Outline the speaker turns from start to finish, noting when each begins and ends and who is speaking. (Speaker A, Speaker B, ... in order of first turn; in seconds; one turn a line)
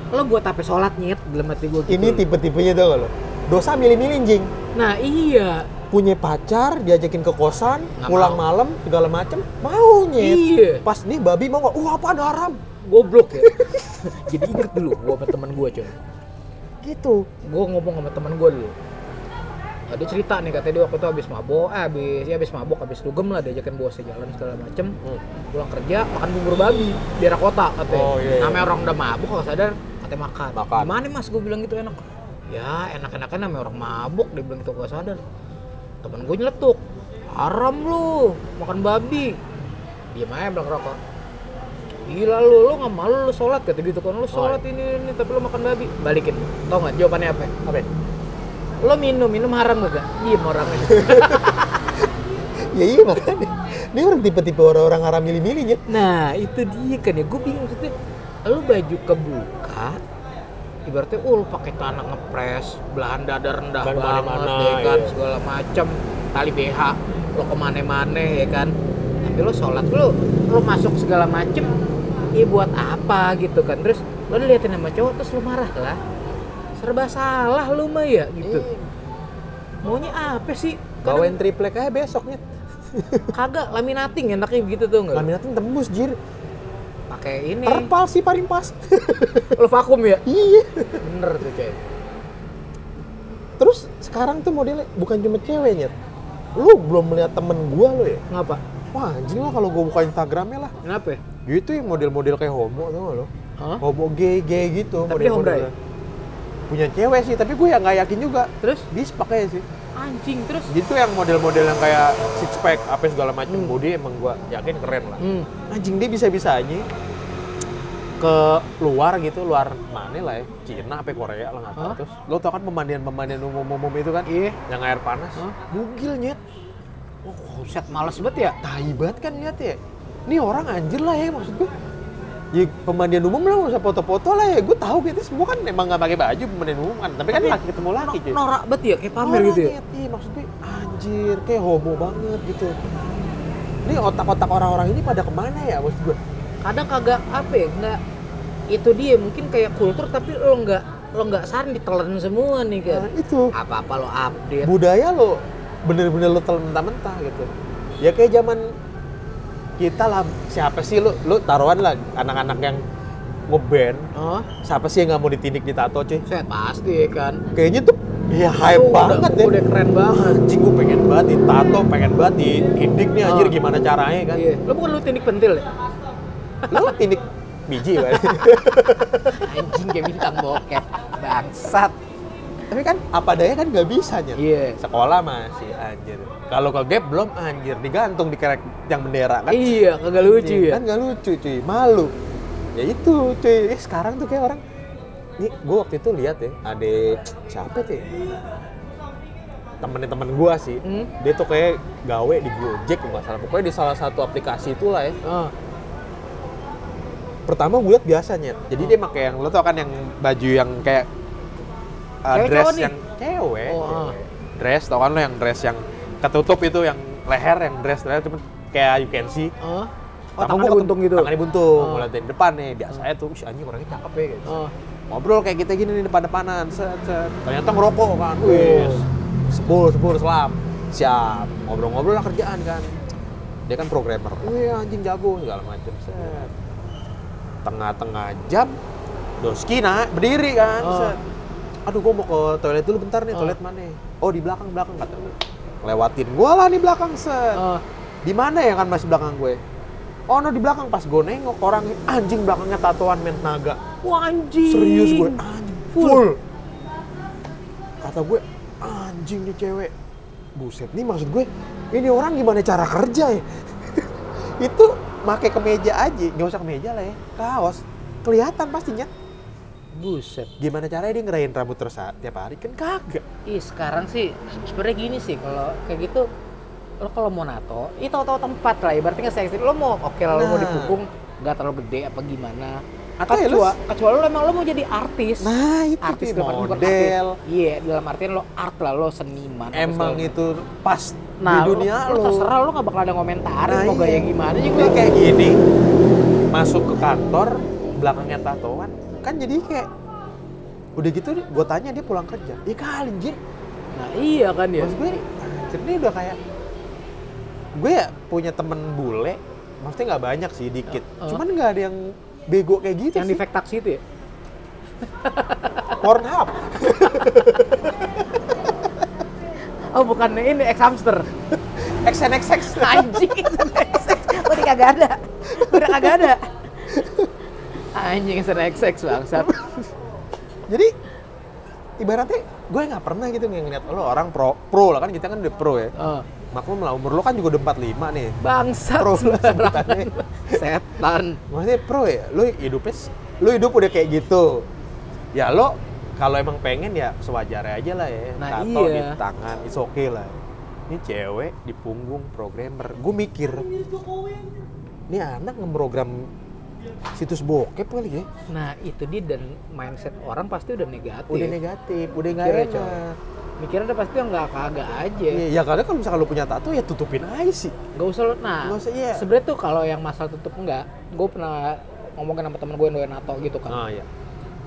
Speaker A: 0.1-2.3
Speaker B: 1.9-4.5
Speaker A: 4.8-5.7
Speaker B: 5.9-12.6
Speaker A: 8.0-8.4
Speaker A: 10.2-10.8
Speaker A: 12.8-16.0
Speaker B: 13.4-15.0
Speaker B: 16.8-17.3
Speaker A: 17.4-18.8
Speaker A: 19.9-25.0
Speaker A: 25.5-35.2
Speaker B: 27.9-28.7
Speaker B: 30.5-30.9
Speaker A: 36.0-36.8
Speaker A: 37.3-39.4
Speaker A: 40.1-41.0
Speaker A: 42.1-47.5
Speaker B: 44.3-44.6
Speaker B: 47.6-47.9
Speaker A: 48.8-51.8
Speaker B: 50.9-51.6
Speaker B: 52.7-55.9
Speaker A: 55.9-57.9
Speaker A: 58.5-60.0
Speaker A: 60.9-68.7
Speaker B: 63.8-65.2
Speaker A: 69.2-71.7
Speaker A: 72.4-76.0
Speaker A: 76.8-78.7
Speaker B: 78.4-78.9
Speaker A: 79.8-81.4
Speaker B: 81.0-82.4
Speaker B: 82.9-83.3
Speaker A: 83.3-85.3
Speaker B: 85.1-86.2
Speaker A: 87.1-87.9
Speaker B: 87.7-89.5
Speaker A: 89.5-90.3
Speaker B: 90.3-91.0
Speaker A: 91.0-91.8
Speaker B: 93.6-95.9
Speaker B: 96.6-98.2
Speaker A: 98.3-98.6
Speaker B: 98.9-100.7
Speaker A: 100.8-101.2
Speaker B: 101.5-103.3
Speaker B: 103.8-105.7
Speaker A: 105.1-105.7
Speaker B: 106.7-109.6
Speaker A: 108.6-108.9
Speaker A: 110.0-110.7
Speaker B: 110.7-116.9
Speaker A: 113.5-113.8
Speaker A: 115.2-115.5
Speaker B: 118.2-126.4
Speaker A: 124.3-124.6
Speaker A: 127.2-128.6
Speaker B: 128.6-131.7
Speaker B: 132.5-138.4
Speaker A: 137.3-139.8
Speaker B: 139.2-142.8
Speaker B: 143.8-146.2
Speaker A: 146.6-148.0
Speaker A: 148.7-154.7
Speaker B: 152.9-153.5
Speaker B: 154.6-157.5
Speaker B: 158.0-158.7
Speaker B: 159.8-162.8
Speaker B: 163.5-164.1
Speaker A: 164.2-164.5
Speaker B: 164.6-166.2
Speaker A: 166.3-167.4
Speaker B: 167.5-169.6
Speaker A: 168.6-170.4
Speaker B: 170.1-174.4
Speaker A: 173.2-173.6
Speaker A: 174.3-175.7
Speaker A: 176.6-177.0
Speaker B: 176.7-179.7
Speaker A: 177.9-178.3
Speaker A: 179.3-182.0
Speaker B: 182.7-192.1
Speaker A: 184.3-184.8
Speaker A: 189.5-190.8
Speaker B: 192.8-194.6
Speaker B: 195.4-198.2
Speaker B: 199.8-205.2
Speaker A: 200.8-201.1
Speaker A: 205.2-205.5
Speaker B: 207.5-211.1
Speaker B: 212.3-219.5
Speaker A: 212.3-212.9
Speaker A: 213.7-214.2
Speaker A: 219.6-222.1
Speaker B: 220.4-224.6
Speaker A: 224.5-224.7
Speaker B: 225.1-233.0
Speaker A: 228.4-229.0
Speaker B: 233.7-236.5
Speaker B: 237.6-238.8
Speaker B: 239.4-241.2
Speaker A: 240.8-241.2
Speaker B: 241.9-247.7
Speaker A: 247.5-247.8
Speaker B: 248.2-249.6
Speaker B: 250.3-253.8
Speaker A: 254.0-256.3
Speaker B: 254.7-256.4
Speaker B: 258.0-259.9
Speaker B: 260.6-269.1
Speaker A: 269.9-270.5
Speaker B: 270.6-273.2
Speaker A: 273.5-276.3
Speaker A: 277.0-290.4
Speaker B: 280.3-281.0
Speaker B: 283.2-283.8
Speaker B: 285.4-287.4
Speaker B: 289.7-292.5
Speaker A: 291.4-295.1
Speaker B: 293.7-295.6
Speaker B: 296.5-299.9
Speaker B: 301.0-303.4
Speaker A: 303.9-304.9
Speaker B: 304.8-306.4
Speaker B: 307.8-313.4
Speaker A: 310.9-311.4
Speaker A: 313.1-314.0
Speaker A: 315.1-316.0
Speaker B: 316.0-318.0
Speaker A: 319.9-321.3
Speaker B: 321.8-323.4
Speaker A: 322.6-327.0
Speaker B: 325.5-326.4
Speaker B: 326.9-327.3
Speaker A: 327.9-329.6
Speaker B: 329.4-329.8
Speaker B: 330.7-330.9
Speaker B: 332.0-335.9
Speaker A: 336.0-336.3
Speaker B: 336.5-338.4
Speaker A: 338.4-341.4
Speaker B: 339.0-340.6
Speaker B: 341.5-344.7
Speaker B: 345.3-353.7
Speaker A: 348.4-349.2
Speaker B: 355.1-356.3
Speaker B: 357.2-358.3
Speaker A: 358.5-361.6
Speaker B: 361.3-363.2
Speaker A: 362.4-363.0
Speaker A: 363.6-365.4
Speaker B: 365.3-367.8
Speaker A: 367.9-373.8
Speaker B: 368.6-369.3
Speaker B: 373.7-374.1